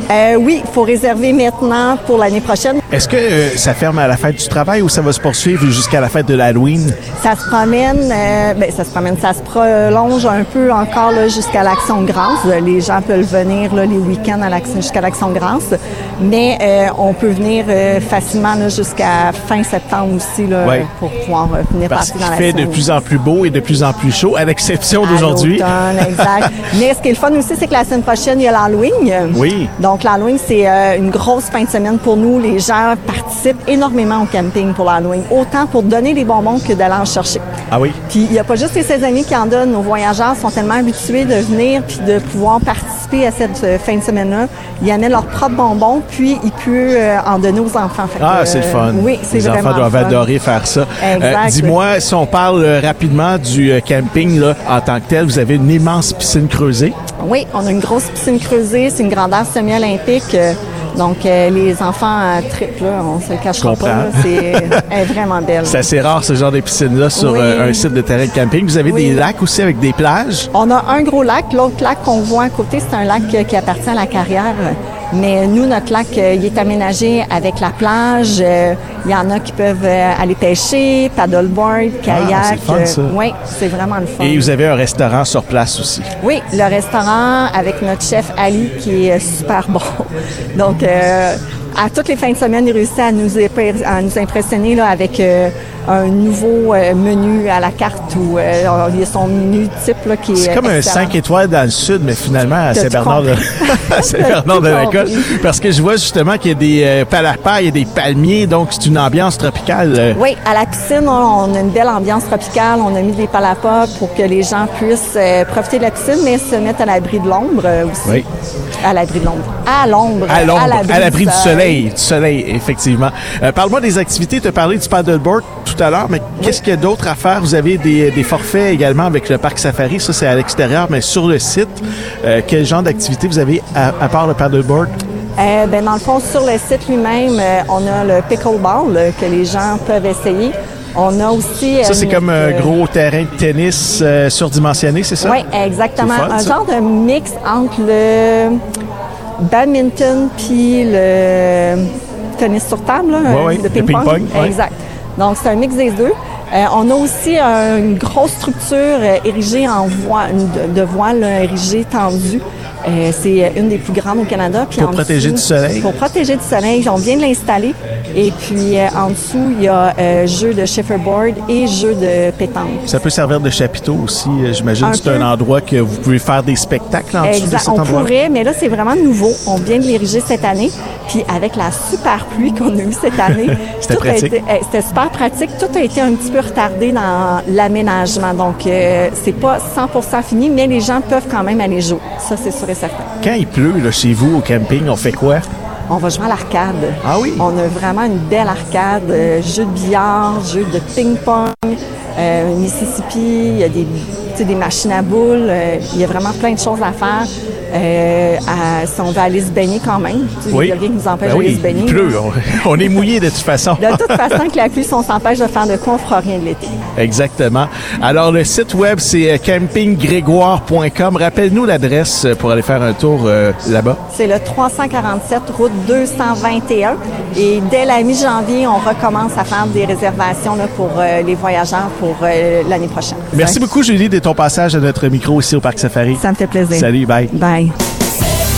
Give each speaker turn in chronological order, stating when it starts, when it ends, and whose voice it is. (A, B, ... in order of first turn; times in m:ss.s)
0:00.1-0:02.8 A
0:02.9-0:07.0 B
0:07.2-0:22.8 A
0:21.9-0:26.4 B
0:25.0-0:37.4 A
0:29.3-0:29.7 B
0:37.7-0:38.0 B
0:38.1-0:50.3 A
0:48.2-0:57.0 B
0:51.0-0:51.8 A
0:57.2-1:05.8 A
1:03.6-1:04.8 B
1:05.6-1:10.5 B
1:07.2-1:07.8 A
1:08.8-1:09.2 A
1:10.5-1:24.5 A
1:22.1-1:23.1 B
1:24.2-1:26.1 B
1:26.2-1:41.2 A
1:40.3-1:50.2 B
1:42.7-1:45.4 A
1:50.1-1:58.3 A
1:58.8-2:01.8 A
2:00.3-2:15.0 B
2:15.4-2:22.7 A
2:21.8-2:25.4 B
2:25.2-2:28.6 A
2:26.0-2:26.5 B
2:29.4-2:52.8 A
2:33.3-2:34.6 B
2:44.8-2:45.9 B
2:52.9-2:58.1 B
2:54.8-2:55.3 A
2:57.2-3:13.1 A
3:03.6-3:04.3 B
3:13.2-3:15.4 B
3:15.9-3:32.2 A
3:17.0-3:17.4 B
3:30.5-3:34.4 B
3:33.8-3:36.8 A
3:37.0-3:44.0 B
3:44.1-3:53.6 A
3:53.3-3:57.3 B
3:56.2-3:57.7 A